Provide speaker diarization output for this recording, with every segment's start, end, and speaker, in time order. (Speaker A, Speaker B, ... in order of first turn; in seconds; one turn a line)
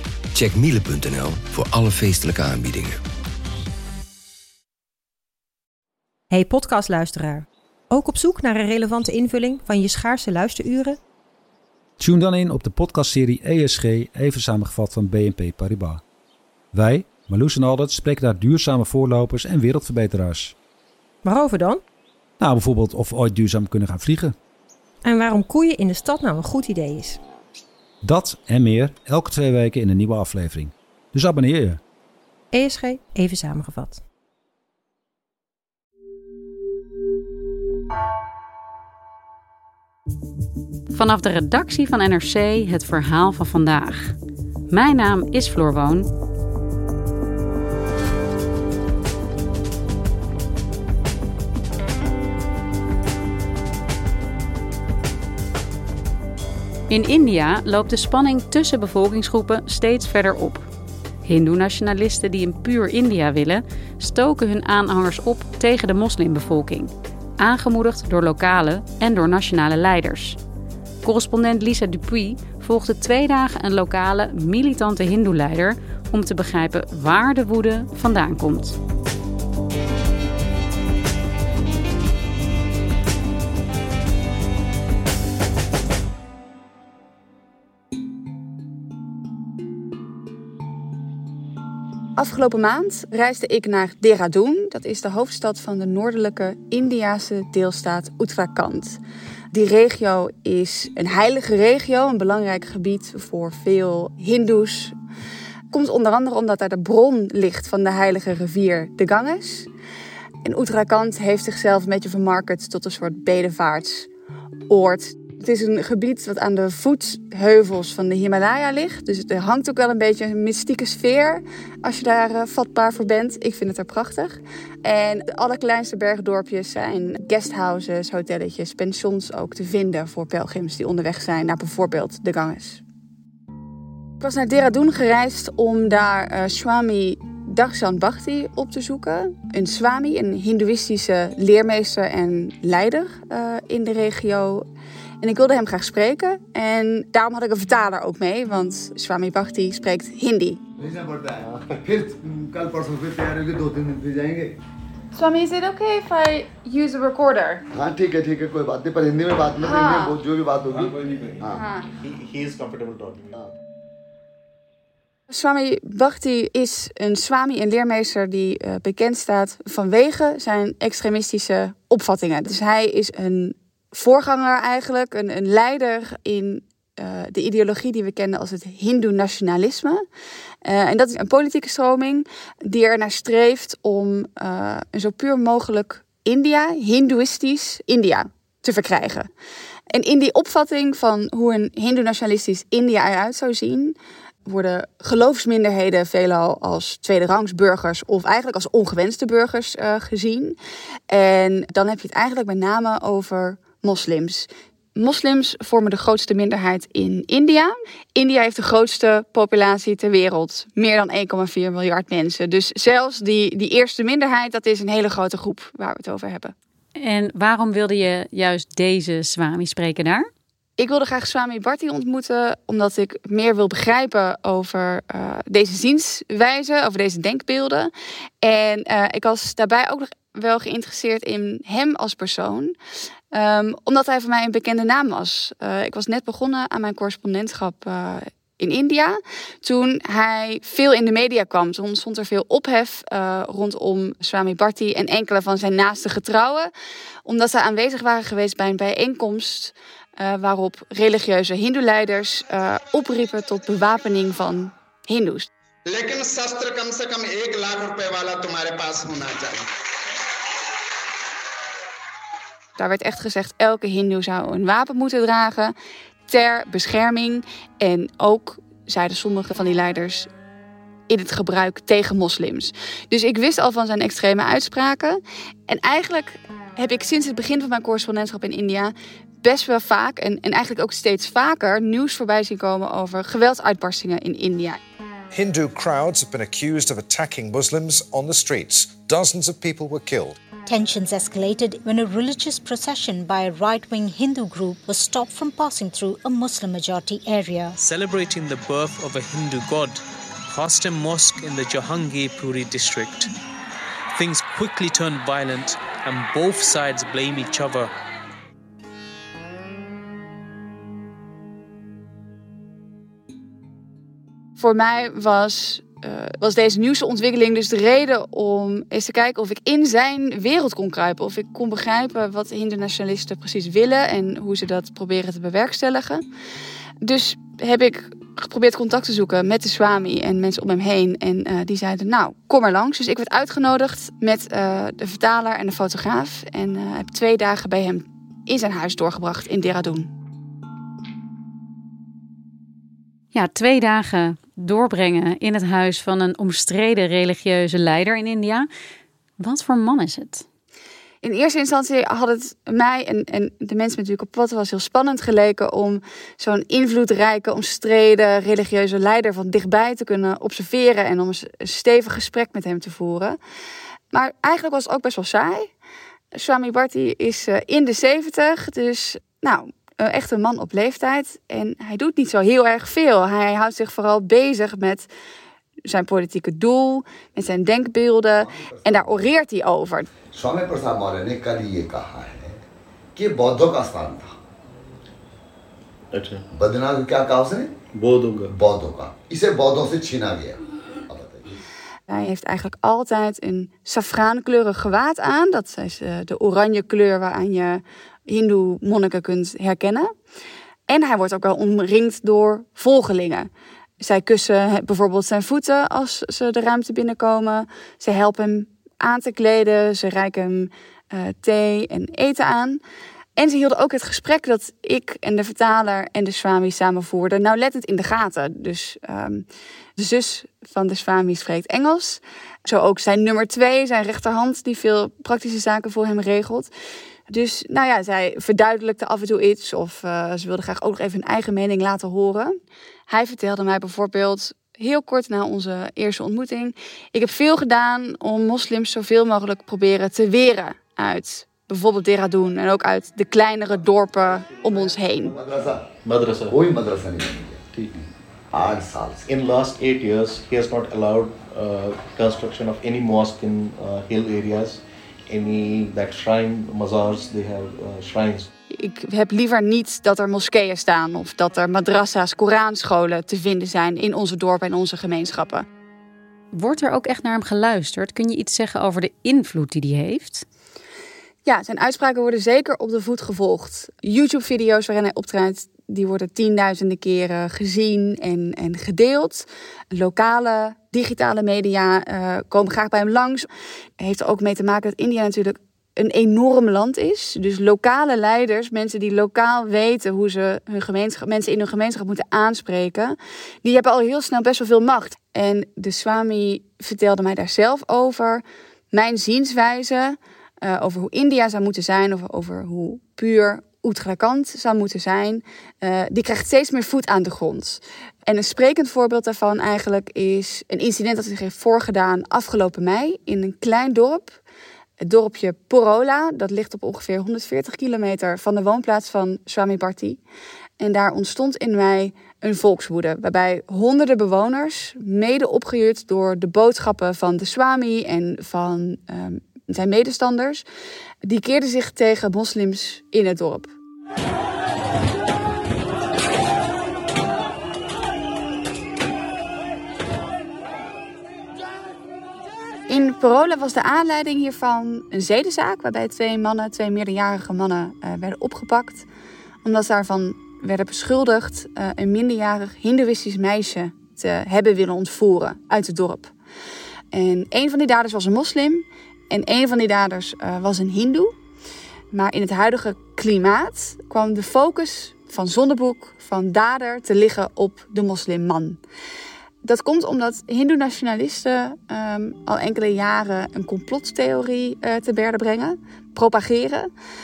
Speaker A: 0.3-3.0
Speaker B: 6.3-11.0
Speaker C: 12.0-16.0
Speaker C: 16.7-20.6
Speaker B: 21.2-21.8
Speaker C: 22.4-24.4
Speaker B: 25.1-27.2
Speaker C: 28.0-31.8
Speaker B: 32.5-34.0
Speaker D: 40.9-44.1
Speaker D: 44.7-46.1
Speaker D: 56.9-60.7
Speaker D: 61.2-70.4
Speaker D: 71.0-78.8
Speaker E: 92.2-99.0
Speaker E: 99.5-104.9
Speaker E: 105.7-109.7
Speaker E: 110.4-114.1
Speaker E: 114.7-132.8
Speaker E: 134.2-144.7
Speaker E: 145.2-150.6
Speaker F: 150.8-154.6
Speaker E: 155.1-157.6
Speaker F: 157.7-161.6
Speaker E: 159.6-160.2
Speaker G: 160.7-161.4
Speaker E: 161.5-161.9
Speaker G: 162.0-163.3
Speaker E: 165.3-180.0
Speaker E: 180.7-189.3
Speaker E: 189.9-200.6
Speaker E: 201.1-216.5
Speaker D: 217.0-220.3
Speaker E: 220.8-232.8
Speaker E: 233.3-246.7
Speaker E: 247.3-255.5
Speaker H: 255.9-259.6
Speaker E: 262.8-265.7
Speaker E: 266.3-270.3
Speaker E: 271.1-284.8
Speaker I: 285.3-290.4
Speaker J: 290.7-297.7
Speaker K: 297.8-303.3
Speaker K: 304.1-307.9
Speaker E: 314.6-326.2
Speaker E: 327.0-340.1
Speaker D: 343.3-348.7
Speaker D: 349.4-350.4
Speaker E: 351.2-363.4
Speaker E: 364.1-365.7
Speaker E: 366.4-375.1
Speaker E: 375.9-380.1
Speaker F: 378.4-379.3
Speaker F: 380.3-382.6
Speaker F: 383.1-384.4
Speaker G: 386.1-386.4
Speaker F: 386.5-387.7
Speaker G: 387.9-388.5
Speaker F: 388.5-391.5
Speaker E: 392.1-400.1
Speaker E: 400.9-403.5
Speaker E: 404.0-412.8
Speaker E: 413.4-419.5
Speaker E: 420.0-426.7
Speaker E: 427.3-432.6
Speaker E: 433.1-445.3
Speaker F: 445.3-445.9
Speaker G: 446.1-446.5
Speaker F: 446.5-447.6
Speaker G: 447.7-448.0
Speaker F: 448.5-449.3
Speaker G: 449.3-458.5
Speaker E: 458.7-465.6
Speaker D: 466.5-470.4
Speaker E: 471.4-483.5
Speaker E: 484.0-514.4
Speaker E: 515.0-520.2
Speaker E: 520.8-530.6
Speaker E: 531.2-533.7
Speaker E: 542.9-549.1
Speaker E: 549.6-556.3
Speaker E: 557.1-561.3
Speaker E: 562.1-568.8
Speaker E: 569.6-576.9